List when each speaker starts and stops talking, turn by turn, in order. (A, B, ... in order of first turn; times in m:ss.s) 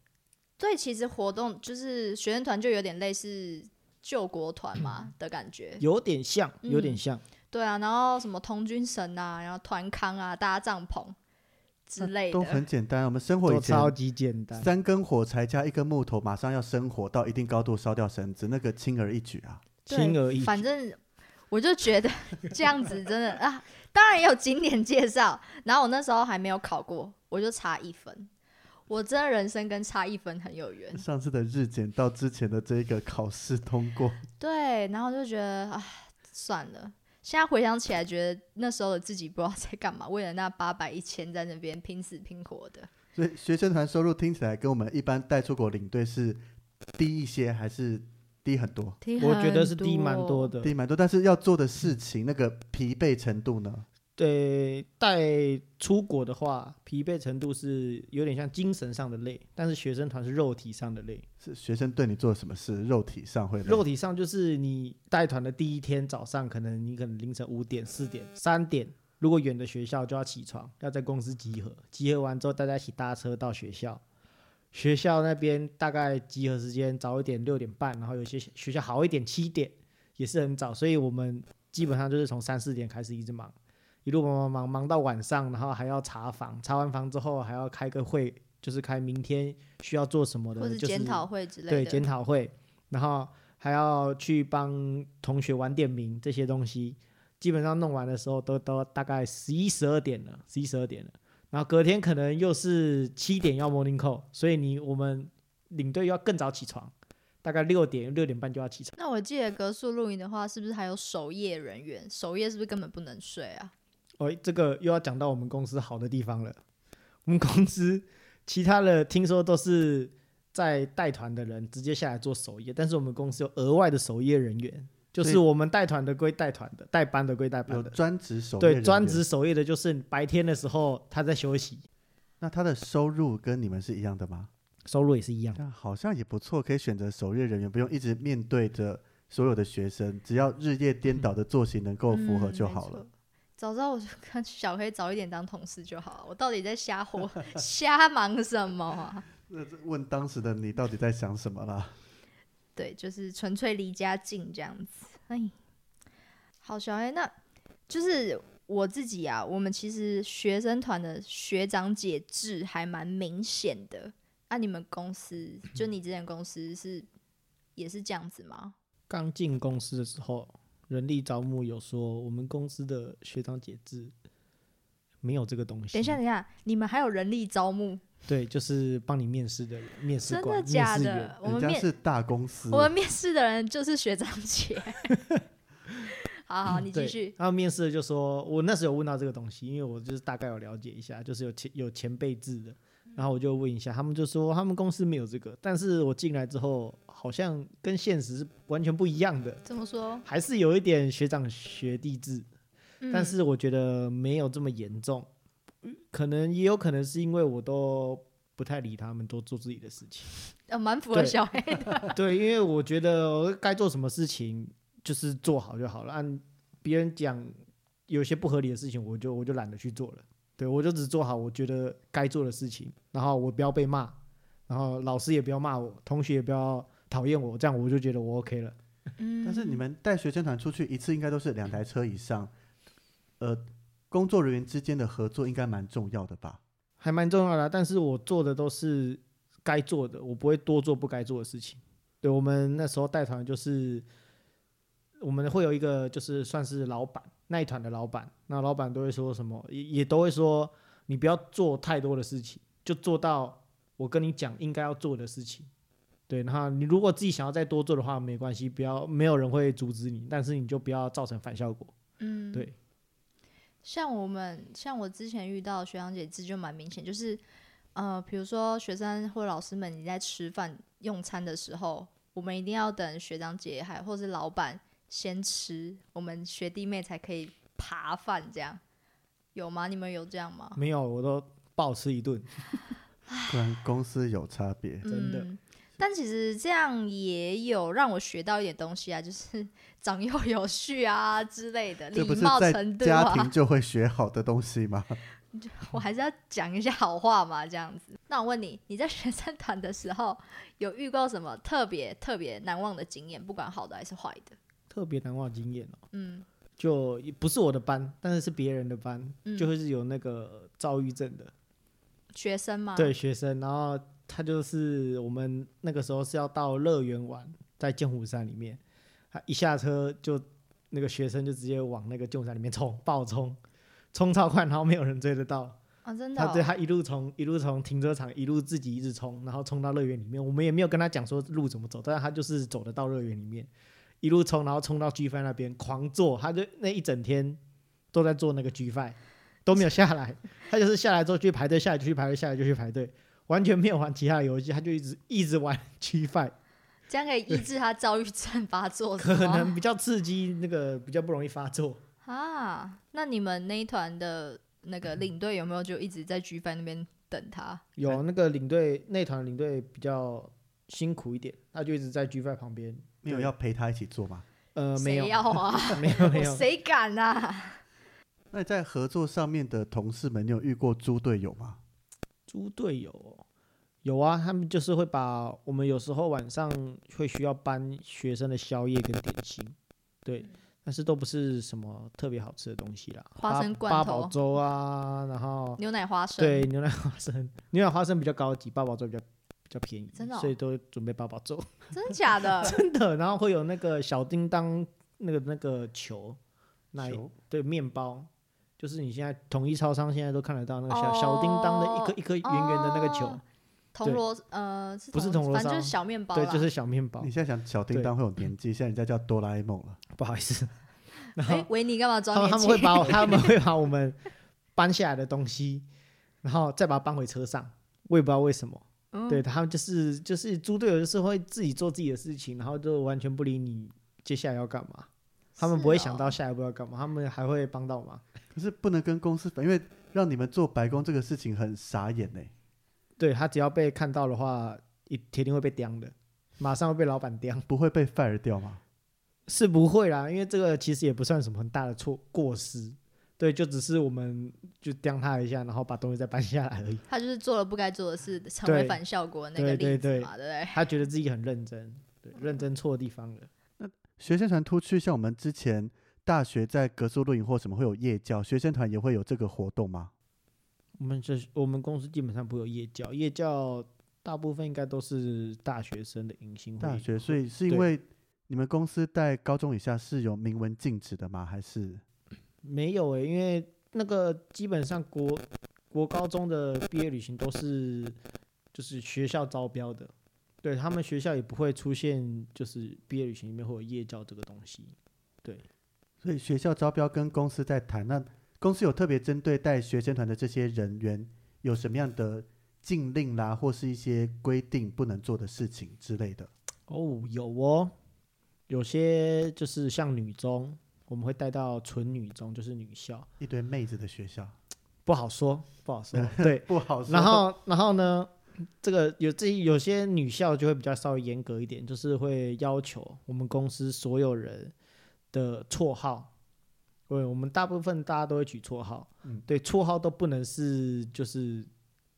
0:00.6-0:05.8 A
0:05.8-0:07.2 B
0:06.6-0:07.0 A
0:07.5-0:11.2 A
0:11.9-0:12.6 A
0:12.0-0:13.9 C
0:13.4-0:14.7 B
0:14.6-0:19.6 C
0:19.9-0:20.6 B
0:19.9-0:21.0 A
0:21.5-0:28.3 A
0:28.9-0:31.0 A
0:30.9-0:34.2 C
0:34.4-0:42.9 A
0:43.1-0:46.4 C
0:46.9-0:49.0 C
0:49.0-0:50.5 A
0:49.2-0:50.7 B
0:50.6-0:53.8 C
0:54.2-1:01.2 B
1:01.4-1:03.8 C
1:03.6-1:14.0 B
1:14.7-1:23.5 B
1:24.0-1:48.9 B
1:30.6-1:32.1 A
1:49.0-1:53.7 A
1:54.2-1:56.6 B
1:57.2-2:08.0 B
2:07.7-2:09.2 C
2:08.6-2:11.8 B
2:12.4-2:14.5 C
2:14.9-2:15.6 B
2:15.6-2:23.0 C
2:22.1-2:29.2 A
2:29.5-2:32.0 C
2:32.8-2:35.5 A
2:36.6-2:37.3 A
2:37.9-2:47.1 A
2:47.8-2:48.7 A
2:49.1-2:54.1 B
2:55.2-2:56.2 B
2:55.9-2:58.0 A
2:58.3-3:01.3 B
3:00.2-3:01.9 A
3:01.4-3:02.9 C
3:02.7-3:05.1 A
3:05.1-3:05.4 B
3:06.4-3:07.3 A
3:06.8-3:19.6 B
3:19.6-3:20.2 A
3:20.2-3:22.4 B
3:23.0-3:23.4 A
3:23.1-3:25.3 B
3:25.8-3:30.3 B
3:30.7-3:32.2 A
3:32.0-3:37.5 B
3:38.1-3:44.2 B
3:44.7-3:48.7 B
3:49.2-3:49.8 A
3:49.4-3:52.5 C
3:53.4-3:56.6 C
3:57.0-4:04.0 B
4:05.2-4:15.7 B
4:16.3-4:21.9 B
4:22.2-4:22.7 A
4:23.8-4:27.4 A
4:27.9-4:38.8 A
4:39.5-4:40.8 A
4:40.8-4:42.6 B
4:43.3-4:43.6 A
4:43.5-4:45.0 C
4:45.0-4:53.5 A
4:45.1-4:45.5 B
4:52.1-4:55.2 C
4:55.5-5:04.6 A
5:04.9-5:06.0 B
5:06.1-5:06.4 A
5:06.8-5:11.5 B
5:09.4-5:09.7 A
5:12.3-5:13.1 A
5:13.0-5:18.8 B
5:19.3-5:23.6 B
5:24.1-5:25.8 B
5:26.0-5:26.7 A
5:26.4-5:33.7 B
5:34.2-5:37.6 B
5:38.1-5:46.5 B
5:47.1-5:49.7 A
5:49.2-5:52.0 B
5:52.2-5:57.9 A
5:58.0-6:03.5 B
6:03.2-6:04.4 C
6:04.8-6:06.6 B
6:05.0-6:07.8 A
6:08.5-6:11.8 C
6:12.5-6:13.4 B
6:14.0-6:25.8 B
6:23.4-6:24.3 A
6:25.8-6:26.7 A
6:26.4-6:31.9 B
6:30.2-6:30.5 A
6:31.9-6:32.8 A
6:32.6-6:36.4 B
6:36.9-6:43.4 B
6:37.0-6:37.3 C
6:40.9-6:43.4 A
6:43.9-6:46.7 A
6:45.1-6:47.3 B
6:47.2-6:50.0 C
6:50.2-6:50.7 B
6:51.3-6:51.7 B
6:51.4-6:53.5 A
6:52.3-6:54.2 B
6:54.8-6:55.8 B
6:56.4-7:05.1 B
6:59.1-6:59.4 A
7:05.6-7:06.3 A
7:05.6-7:08.2 B
7:08.5-7:12.5 C
7:13.2-7:17.6 B
7:17.7-7:18.8 C
7:19.5-7:27.0 B
7:27.1-7:30.8 A
7:28.6-7:29.0 B
7:29.6-7:33.5 B
7:33.8-7:40.1 C
7:41.0-7:47.9 B
7:46.8-7:52.0 C
7:52.6-7:58.2 B
7:58.7-8:00.1 B
8:00.6-8:05.6 B
8:06.2-8:16.5 C
8:16.9-8:17.9 B
8:18.7-8:23.3 B
8:23.4-8:24.5 C
8:25.0-8:34.7 B
8:26.1-8:27.4 C
8:35.3-8:36.3 B
8:37.1-8:41.7 B